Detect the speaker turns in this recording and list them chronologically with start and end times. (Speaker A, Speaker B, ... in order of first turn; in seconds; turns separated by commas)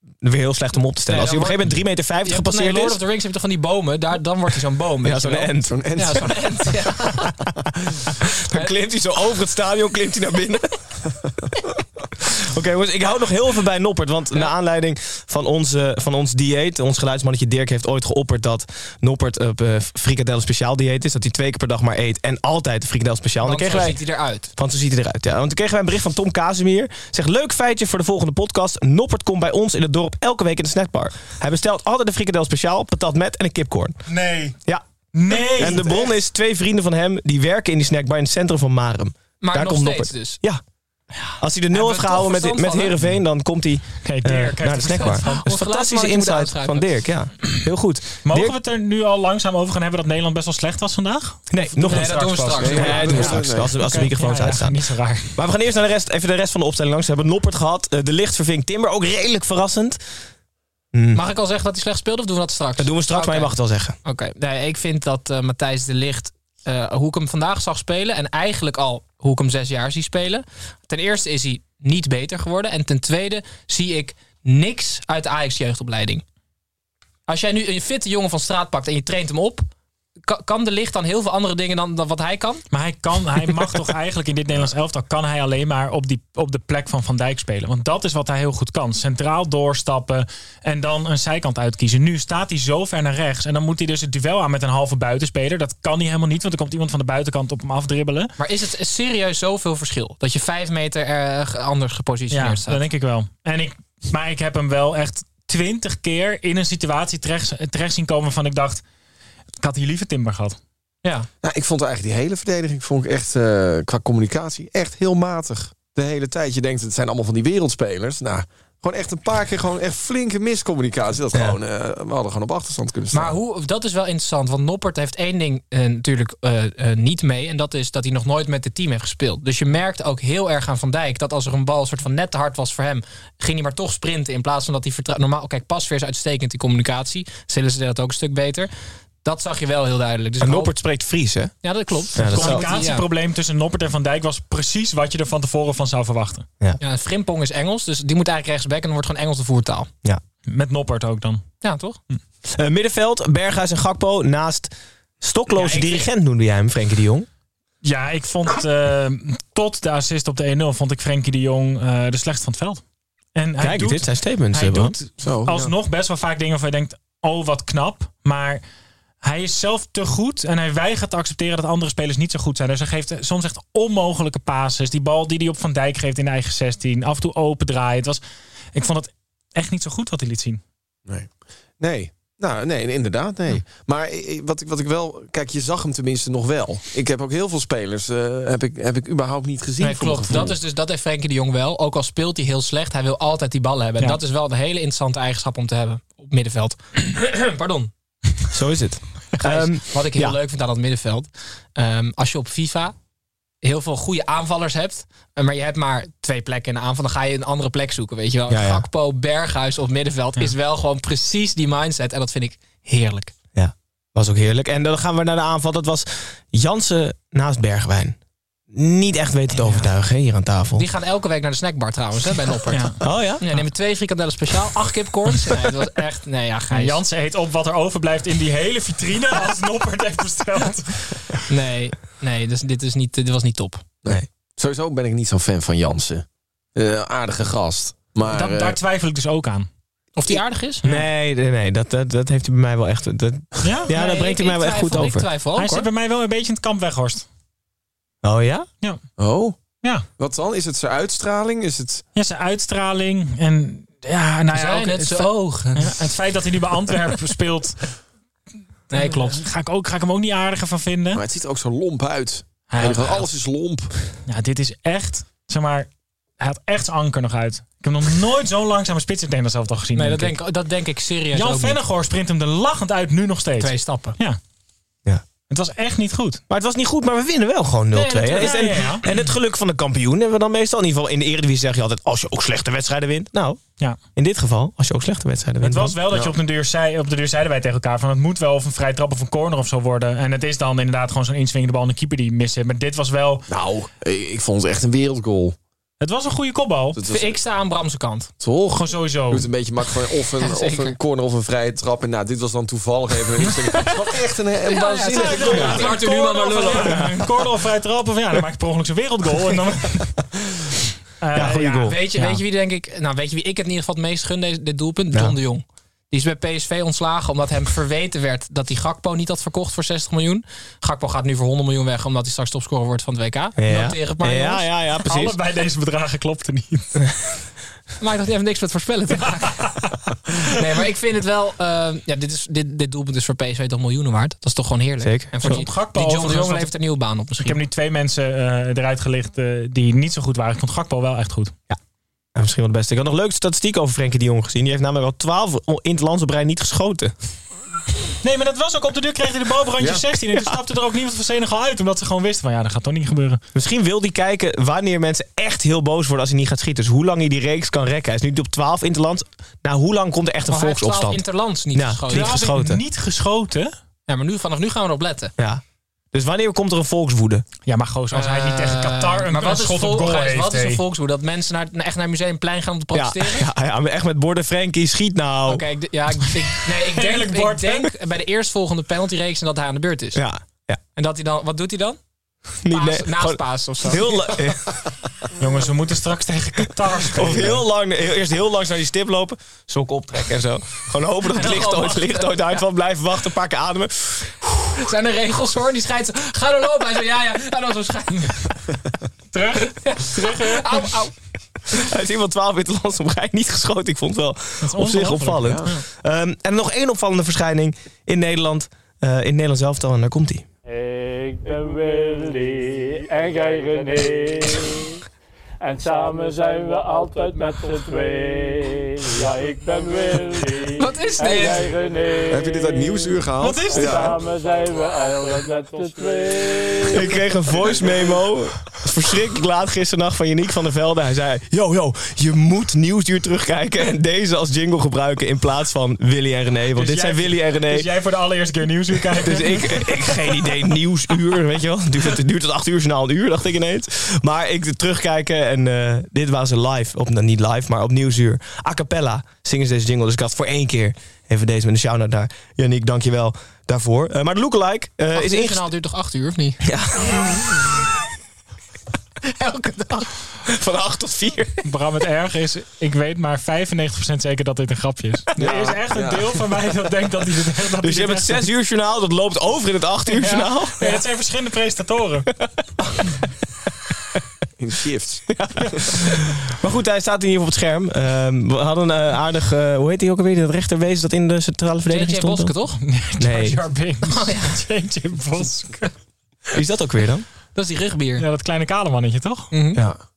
Speaker A: 0.2-3.0, Speaker B: 1.1-1.6, Speaker B: 2.2-7.3, Speaker A: 5.0-5.8, Speaker C: 5.7-6.5, Speaker A: 8.4-10.8, Speaker A: 12.2-24.0, Speaker B: 23.4-24.5, Speaker A: 24.6-34.0, Speaker D: 35.1-36.0, Speaker A: 35.5-40.6, Speaker C: 35.6-36.0, Speaker B: 39.4-40.4, Speaker B: 41.2-43.0, Speaker A: 41.4-48.5, Speaker D: 44.0-45.4, Speaker B: 44.9-46.9, Speaker D: 48.2-55.3, Speaker A: 51.5-54.8, Speaker B: 51.9-53.3, Speaker C: 52.6-53.8, Speaker A: 55.3-60.0, Speaker A: 60.9-61.2, Speaker B: 61.1-63.5, Speaker A: 62.8-64.0, Speaker B: 64.0-76.2, Speaker B: 77.3-79.7, Speaker B: 80.2-82.6, Speaker D: 82.7-98.3, Speaker B: 98.4-102.8, Speaker D: 102.3-108.8, Speaker D: 109.6-110.6, Speaker C: 111.4-123.3, Speaker B: 123.1-138.7, Speaker B: 139.2-140.7, Speaker A: 140.4-141.5, Speaker B: 141.6-143.0, Speaker A: 142.1-142.7, Speaker D: 142.2-146.4, Speaker B: 146.8-149.9, Speaker D: 150.5-151.4, Speaker B: 151.6-152.0, Speaker A: 152.5-157.3, Speaker B: 155.5-156.1, Speaker D: 157.8-162.8, Speaker D: 163.3-168.6, Speaker A: 163.6-165.0, Speaker C: 165.2-165.7, Speaker D: 169.2-178.2, Speaker D: 178.7-180.6, Speaker C: 181.1-190.6, Speaker B: 189.8-197.9, Speaker A: 198.5-200.4, Speaker B: 199.4-202.9, Speaker B: 203.6-213.3, Speaker A: 208.5-208.8, Speaker A: 213.5-218.2, Speaker A: 218.7-220.8, Speaker B: 220.8-227.0, Speaker D: 222.7-223.0, Speaker A: 223.0-223.4, Speaker D: 226.7-231.2, Speaker B: 231.5-233.8, Speaker C: 234.0-238.8, Speaker D: 238.3-239.7, Speaker B: 240.2-240.8, Speaker A: 240.8-245.3, Speaker D: 243.6-243.9, Speaker B: 243.9-245.9, Speaker D: 245.5-247.2, Speaker A: 248.2-248.7, Speaker C: 249.2-249.6, Speaker C: 250.2-252.0, Speaker D: 252.1-257.9, Speaker B: 254.5-255.9, Speaker B: 258.9-259.4, Speaker D: 258.9-261.2, Speaker C: 261.1-263.9, Speaker D: 262.7-263.3, Speaker D: 264.3-265.9, Speaker D: 266.4-270.4, Speaker B: 269.9-271.8, Speaker D: 271.3-274.4, Speaker B: 273.6-274.1, Speaker D: 275.5-276.4, Speaker A: 276.5-283.6, Speaker B: 277.9-278.9, Speaker D: 278.4-279.3, Speaker A: 284.1-286.0, Speaker D: 285.6-293.4, Speaker C: 286.1-286.3, Speaker C: 293.5-295.6, Speaker D: 296.0-297.0, Speaker C: 296.9-297.4, Speaker B: 297.1-298.3, Speaker C: 298.4-306.0, Speaker D: 298.7-299.5, Speaker B: 300.4-301.0, Speaker B: 304.6-307.0, Speaker D: 305.1-310.1, Speaker A: 306.8-307.2, Speaker D: 311.2-312.4, Speaker A: 311.3-311.9, Speaker B: 311.8-324.7, Speaker A: 323.6-325.4, Speaker D: 325.1-327.0, Speaker B: 328.0-329.6, Speaker D: 329.6-329.9, Speaker B: 330.5-337.6, Speaker A: 335.0-335.6, Speaker D: 335.4-336.7, Speaker D: 337.4-341.5, Speaker A: 342.3-347.1, Speaker D: 348.2-353.4, Speaker A: 353.5-362.8, Speaker B: 360.5-362.3, Speaker D: 362.1-363.7, Speaker B: 364.1-365.3, Speaker A: 365.4-367.4, Speaker D: 367.7-370.8, Speaker B: 368.1-373.5, Speaker A: 372.9-375.6, Speaker B: 375.5-380.2, Speaker D: 376.6-377.9, Speaker A: 380.1-380.8, Speaker B: 380.9-382.0, Speaker A: 382.6-384.7, Speaker B: 382.7-384.1, Speaker D: 385.4-387.6, Speaker A: 387.1-394.5, Speaker B: 391.4-392.1, Speaker D: 391.5-391.8, Speaker B: 394.8-398.6, Speaker D: 399.3-400.9, Speaker B: 399.8-401.1, Speaker A: 401.7-410.4, Speaker D: 404.6-405.8, Speaker E: 410.7-415.0, Speaker E: 415.6-427.1, Speaker B: 420.8-421.7, Speaker C: 422.3-424.2, Speaker D: 423.4-424.0, Speaker A: 426.9-437.9, Speaker D: 436.7-440.6, Speaker A: 439.1-455.6, Speaker B: 455.1-456.6, Speaker A: 456.6-457.9, Speaker B: 459.2-460.1, Speaker A: 460.4-461.6, Speaker D: 461.6-468.5, Speaker C: 465.4-466.4, Speaker A: 467.8-470.9, Speaker D: 470.2-472.3, Speaker C: 474.6-475.2, Speaker A: 475.3-482.5, Speaker B: 481.9-482.8, Speaker D: 482.9-485.8, Speaker A: 483.2-483.6, Speaker B: 484.0-484.6, Speaker A: 486.5-487.2, Speaker B: 487.5-488.2, Speaker D: 488.2-489.5, Speaker B: 489.5-489.8